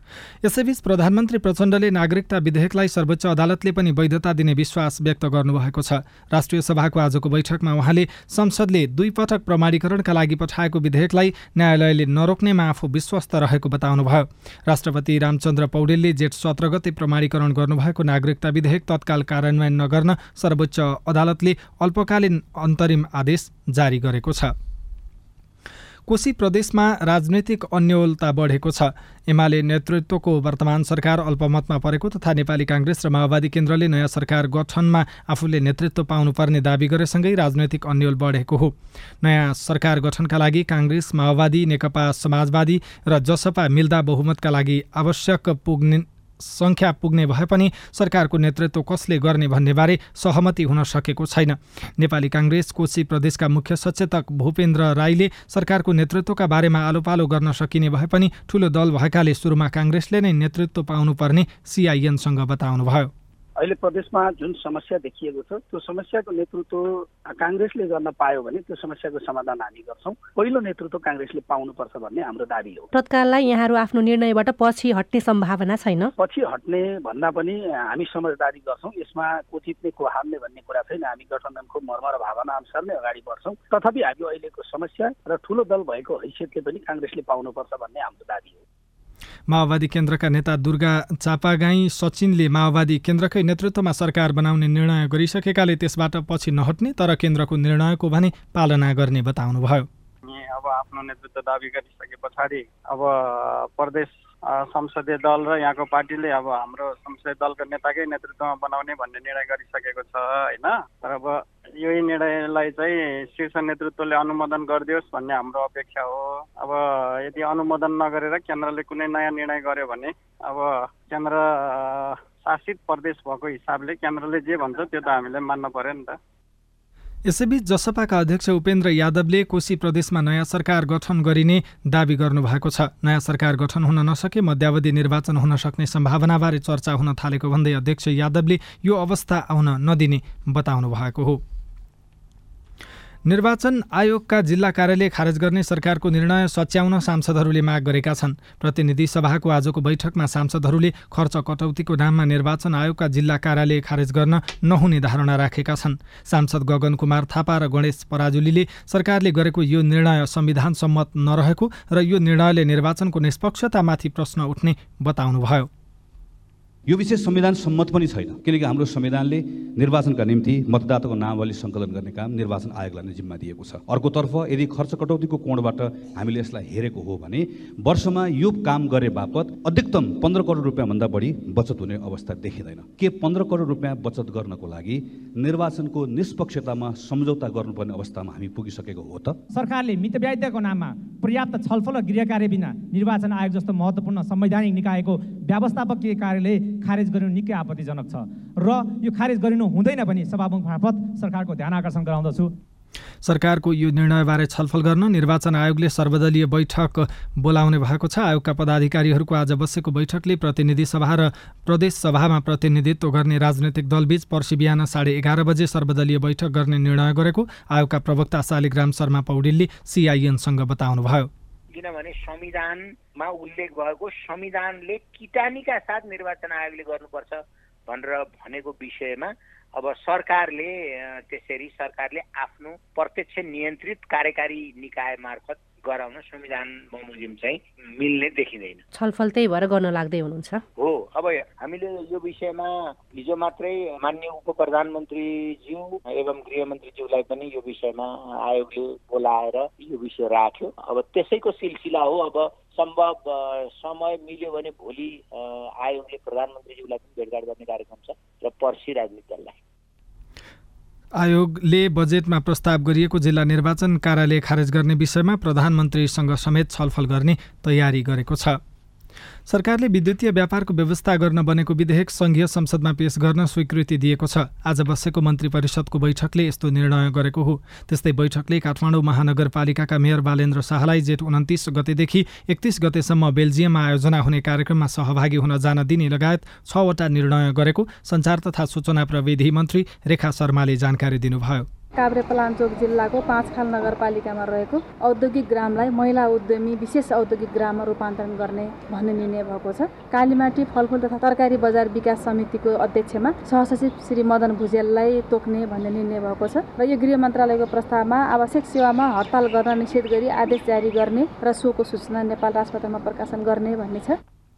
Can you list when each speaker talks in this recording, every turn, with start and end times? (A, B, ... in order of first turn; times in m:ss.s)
0:00.4-0:24.5 A
0:26.1-1:03.1 A
1:03.6-1:12.9 B
1:12.9-1:16.1 C
1:16.2-1:28.6 B
1:29.5-1:39.9 A
1:40.3-2:06.2 D
2:07.2-2:21.4 A
2:23.2-2:45.7 A
2:46.9-3:09.4 E
3:09.5-3:22.5 F
3:23.2-3:41.3 A
3:41.7-3:58.8 G
3:58.9-4:00.6 C
4:00.8-4:19.6 G
4:21.2-4:28.6 A
4:29.5-4:51.6 A
4:52.0-5:14.2 H